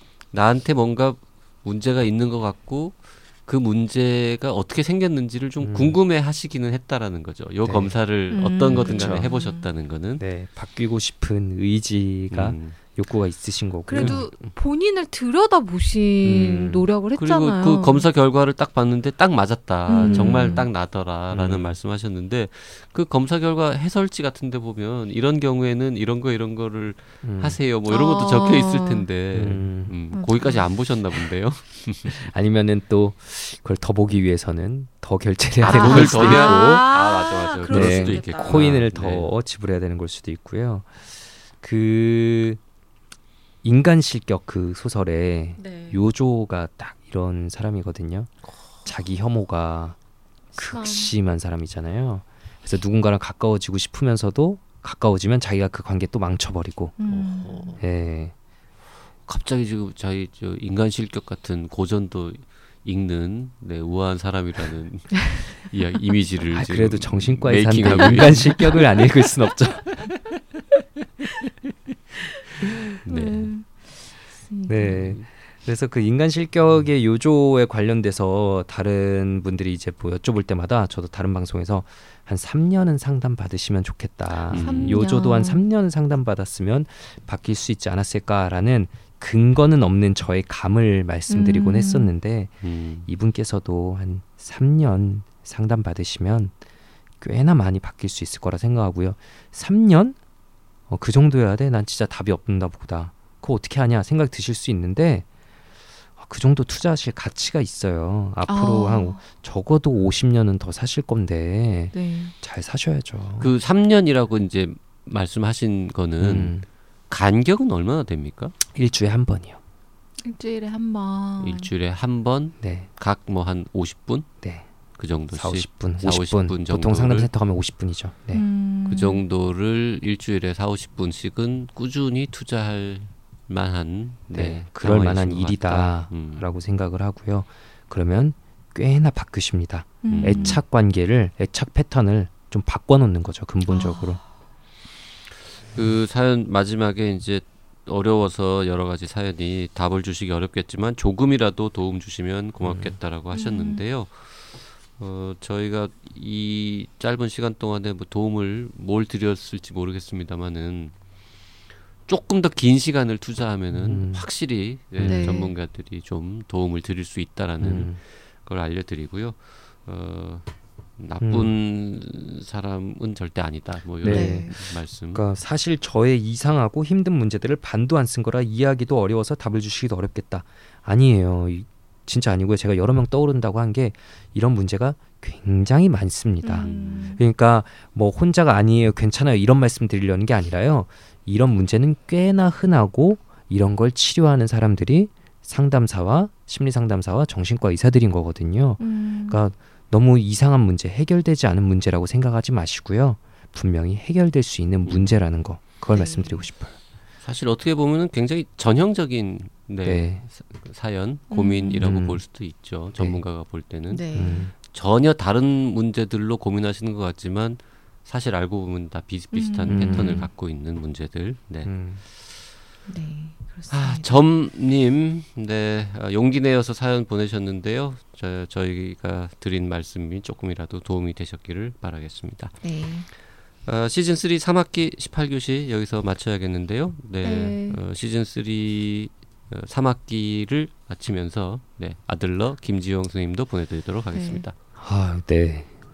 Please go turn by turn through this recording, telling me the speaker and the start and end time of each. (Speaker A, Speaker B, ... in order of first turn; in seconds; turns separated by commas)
Speaker A: 0.3-10.2, Speaker B: 5.6-6.0, Speaker B: 7.6-8.0, Speaker C: 8.3-9.7, Speaker B: 8.7-9.3, Speaker B: 10.2-14.3, Speaker A: 12.3-12.8, Speaker C: 13.9-18.1, Speaker A: 13.9-14.3, Speaker B: 16.2-16.9, Speaker A: 17.2-32.3, Speaker C: 19.9-20.7, Speaker B: 20.0-20.7, Speaker B: 21.3-21.8, Speaker B: 27.2-27.6, Speaker C: 27.9-29.1, Speaker B: 29.3-29.9, Speaker C: 30.1-30.6, Speaker B: 32.1-36.9, Speaker A: 35.6-39.3, Speaker C: 35.6-38.7, Speaker B: 37.7-42.6, Speaker B: 43.6-48.3, Speaker C: 45.6-46.0, Speaker B: 48.8-50.0, Speaker C: 50.5-51.1, Speaker B: 50.6-57.0, Speaker C: 57.0-57.8, Speaker A: 57.1-57.8, Speaker B: 57.8-58.3, Speaker A: 59.3-68.9, Speaker B: 66.5-70.1, Speaker C: 67.9-68.8, Speaker A: 73.0-73.5, Speaker C: 73.0-75.1, Speaker B: 74.7-96.5, Speaker A: 84.5-85.0, Speaker C: 84.5-85.7, Speaker C: 91.3-92.1, Speaker A: 92.6-93.1, Speaker B: 97.2-100.2, Speaker B: 100.9-105.3, Speaker B: 106.2-113.5, Speaker C: 108.5-109.2, Speaker C: 111.9-112.3, Speaker A: 113.4-118.6, Speaker B: 116.2-116.7, Speaker B: 118.7-119.6, Speaker C: 120.2-121.7, Speaker A: 121.4-124.3, Speaker B: 122.6-122.9, Speaker A: 125.0-127.3, Speaker B: 125.3-128.4, Speaker C: 128.3-129.2, Speaker A: 128.9-136.4, Speaker B: 134.3-144.2, Speaker C: 140.0-140.6, Speaker A: 140.1-140.6, Speaker C: 143.7-144.2, Speaker A: 145.7-160.9, Speaker B: 152.7-152.9, Speaker C: 153.3-153.8, Speaker A: 162.1-175.2, Speaker B: 163.7-164.3, Speaker B: 165.0-165.4, Speaker C: 165.0-165.5, Speaker B: 167.6-168.0, Speaker B: 171.2-171.5, Speaker B: 174.0-206.8, Speaker C: 174.1-174.5, Speaker C: 186.4-187.2, Speaker C: 198.8-199.4, Speaker A: 204.8-205.2, Speaker C: 205.9-206.5, Speaker A: 207.2-221.8, Speaker B: 209.8-210.2, Speaker C: 211.3-211.9, Speaker B: 211.8-212.2, Speaker B: 213.0-213.2, Speaker C: 213.9-214.5, Speaker B: 214.1-214.5, Speaker C: 219.3-220.3, Speaker B: 219.7-220.3, Speaker B: 221.7-222.0, Speaker C: 222.9-224.2, Speaker A: 223.7-232.7, Speaker C: 232.6-233.1, Speaker A: 233.6-244.5, Speaker C: 237.2-237.8, Speaker C: 244.1-244.5, Speaker B: 244.8-245.7